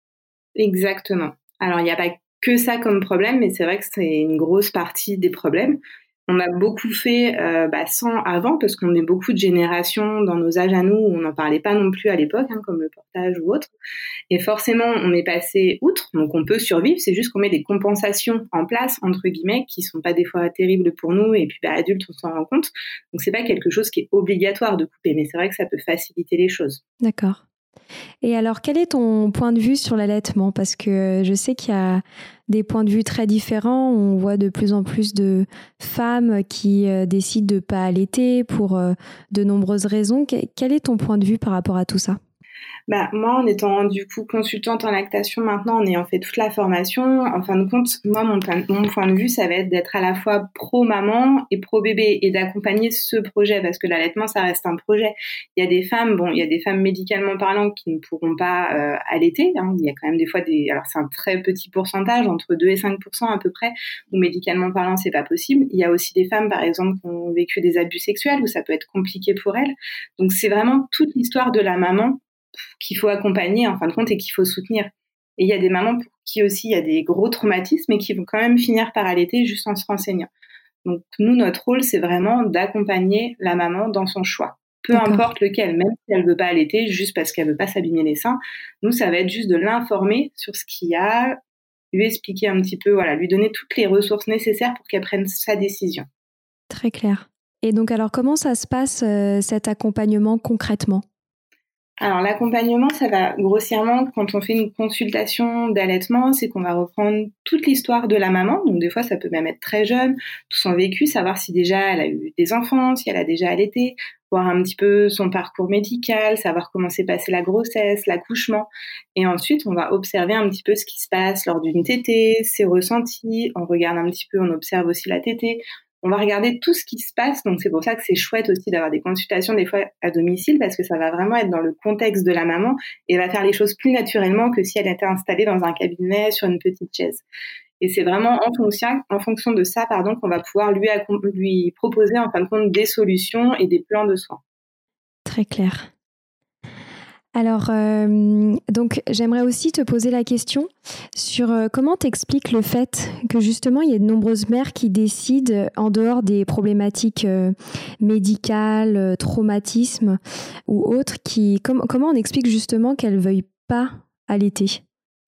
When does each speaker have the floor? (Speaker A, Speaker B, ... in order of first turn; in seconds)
Speaker A: 0.6-13.7, 14.3-26.8, 42.9-72.2, 72.8-80.3, 80.8-91.4, 91.9-96.1, 102.0-137.2, 137.8-144.4
Speaker B: 27.0-27.4, 28.2-42.2, 84.9-85.3, 96.7-101.0, 145.3-145.9, 147.3-164.8